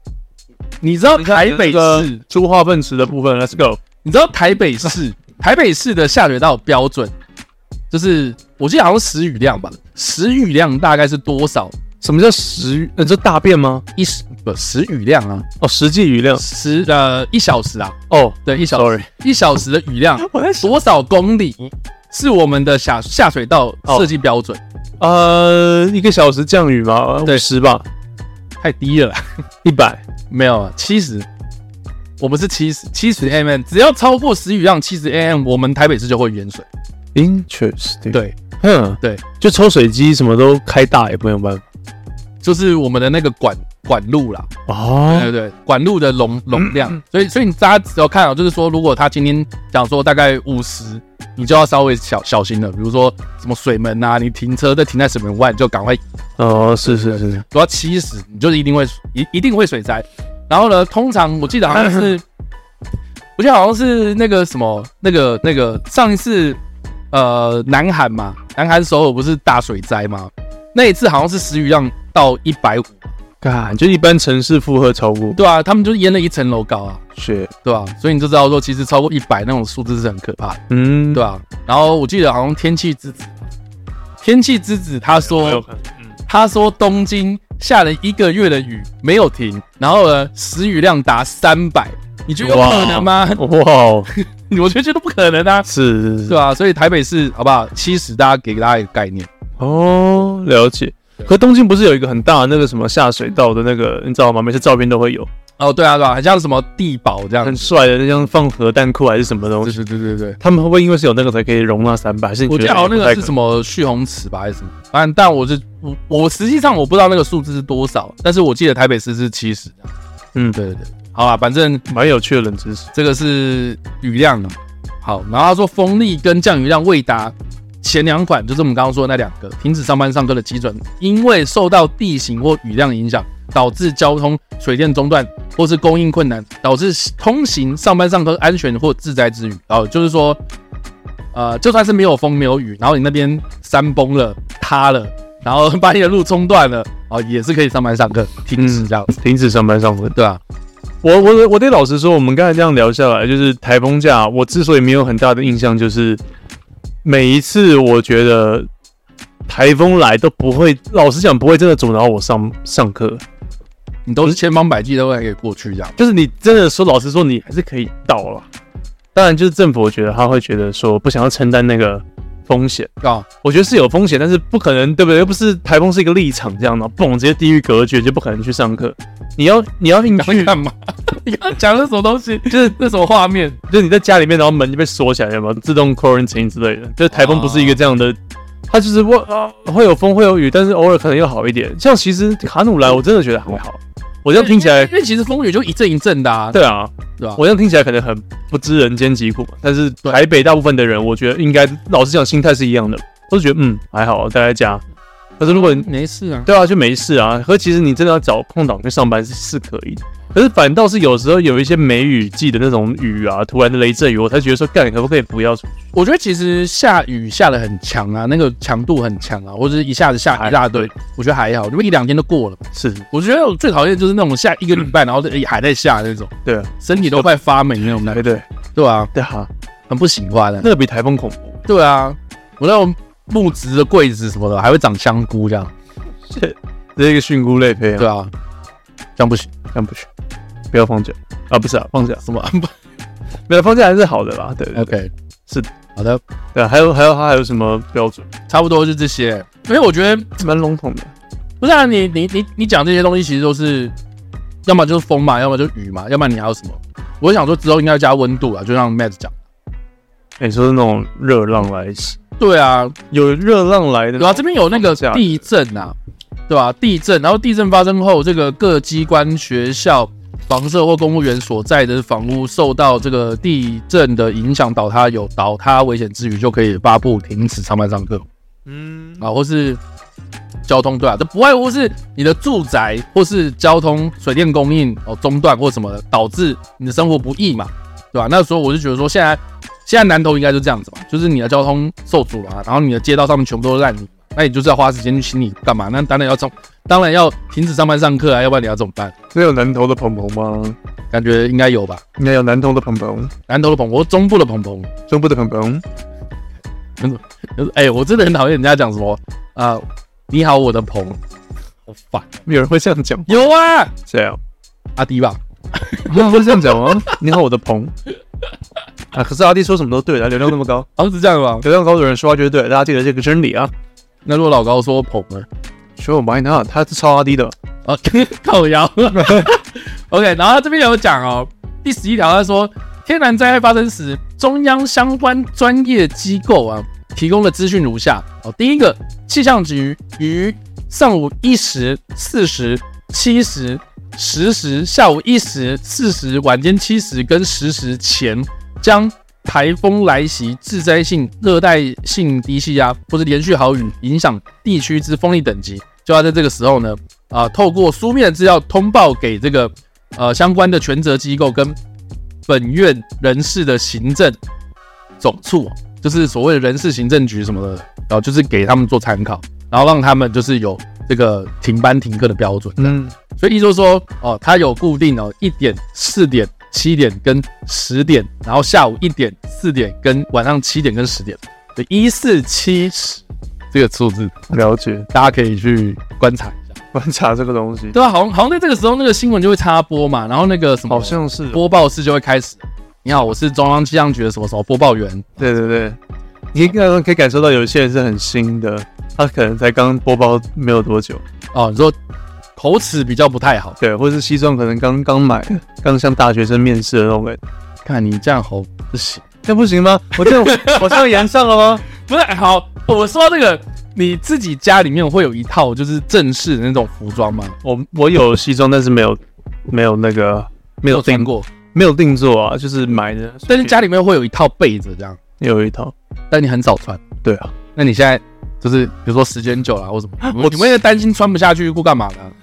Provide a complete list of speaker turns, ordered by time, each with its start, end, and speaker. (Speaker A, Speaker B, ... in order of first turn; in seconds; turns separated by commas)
Speaker A: 0.8-2.2, Speaker B: 1.1-3.8, Speaker A: 4.0-7.1, Speaker A: 7.9-11.7, Speaker B: 12.0-13.8, Speaker A: 13.9-15.5, Speaker B: 15.6-16.4, Speaker A: 16.4-24.6, Speaker B: 18.1-19.1, Speaker B: 20.2-20.7, Speaker B: 25.0-27.9, Speaker A: 28.6-29.2, Speaker B: 29.6-30.0, Speaker A: 30.3-31.3, Speaker A: 32.2-36.6, Speaker B: 37.1-41.6, Speaker A: 38.1-38.4, Speaker A: 42.4-44.5, Speaker B: 44.7-45.3, Speaker A: 45.1-56.1, Speaker B: 46.5-46.9, Speaker B: 56.4-57.4, Speaker A: 56.6-62.2, Speaker A: 63.4-66.6, Speaker A: 67.1-73.1, Speaker B: 73.4-75.4, Speaker A: 75.3-77.0, Speaker B: 77.2-77.5, Speaker A: 77.6-83.3, Speaker B: 80.7-81.3, Speaker A: 84.2-85.6, Speaker B: 85.2-86.1, Speaker A: 86.3-93.4, Speaker B: 92.4-94.1, Speaker A: 94.2-95.7, Speaker B: 95.7-96.4, Speaker A: 96.2-99.3, Speaker B: 99.6-105.3, Speaker A: 105.6-107.7, Speaker B: 107.4-109.8, Speaker A: 109.6-110.4, Speaker B: 110.4-113.3, Speaker A: 112.5-119.9, Speaker A: 120.5-121.8, Speaker B: 121.9-122.9, Speaker A: 122.9-140.4, Speaker A: 141.3-149.2, Speaker B: 148.6-150.2, Speaker A: 150.1-150.4, Speaker B: 151.0-156.2, Speaker B: 157.0-158.7, Speaker B: 159.5-163.2, Speaker A: 164.1-165.9, Speaker B: 166.0-168.5, Speaker B: 169.1-172.9, Speaker A: 173.0-173.2, Speaker B: 173.4-180.6, Speaker A: 180.2-183.6, Speaker B: 183.7-188.2, Speaker A: 187.1-187.8, Speaker B: 188.7-194.9, Speaker A: 194.3-196.6, Speaker B: 196.5-204.8, Speaker B: 205.4-205.9, Speaker A: 205.4-206.5, Speaker B: 206.4-215.7, Speaker A: 215.9-229.1, Speaker B: 220.3-220.9, Speaker B: 222.7-223.1, Speaker B: 226.4-227.3, Speaker B: 228.0-228.4, Speaker B: 229.1-229.5, Speaker A: 229.9-230.7, Speaker B: 230.6-231.6, Speaker A: 231.7-235.7, Speaker B: 236.2-238.1, Speaker A: 238.0-238.3, Speaker A: 239.2-239.5, Speaker B: 239.7-240.1, Speaker B: 240.7-242.2, Speaker A: 242.2-242.7, Speaker B: 243.5-244.9, Speaker A: 244.7-245.1, Speaker A: 245.9-246.2, Speaker B: 246.5-248.3, Speaker A: 248.5-250.4, Speaker B: 250.4-251.1, Speaker A: 251.6-253.9, Speaker A: 254.7-259.3, Speaker B: 260.4-262.2, Speaker A: 262.4-262.9, Speaker B: 263.1-265.4, Speaker A: 264.2-265.9, Speaker A: 266.5-278.2, Speaker B: 278.6-279.2, Speaker A: 279.2-279.8, Speaker A: 280.7-299.1, Speaker B: 299.3-300.8, Speaker A: 301.1-302.0, Speaker B: 302.2-303.3, Speaker A: 303.5-304.9, Speaker B: 305.1-305.8, Speaker A: 307.0-311.2, Speaker A: 311.9-312.3, Speaker B: 312.4-313.4, Speaker A: 313.3-313.9, Speaker B: 314.1-314.4, Speaker A: 315.0-317.2, Speaker B: 316.1-317.9, Speaker B: 319.1-320.9, Speaker A: 320.9-321.6, Speaker B: 321.6-323.7, Speaker A: 324.2-325.5, Speaker B: 326.0-327.5, Speaker A: 327.8-361.8, Speaker B: 329.2-329.5, Speaker A: 362.5-364.4, Speaker A: 365.2-384.5, Speaker B: 372.8-373.1, Speaker B: 384.5-385.1, Speaker A: 385.1-386.8, Speaker B: 386.9-387.9, Speaker A: 387.9-395.4, Speaker B: 390.9-391.6, Speaker B: 395.4-396.0, Speaker B: 396.5-401.2, Speaker A: 401.5-402.0, Speaker A: 402.6-403.8, Speaker B: 403.8-407.4, Speaker A: 407.8-409.2, Speaker B: 409.4-411.8, Speaker A: 410.2-411.1, Speaker A: 411.9-417.6, Speaker B: 417.6-423.8, Speaker A: 420.9-421.5, Speaker A: 423.5-425.2, Speaker B: 425.4-425.9, Speaker A: 426.3-427.0, Speaker B: 427.2-427.5, Speaker A: 427.7-432.3, Speaker B: 430.2-430.8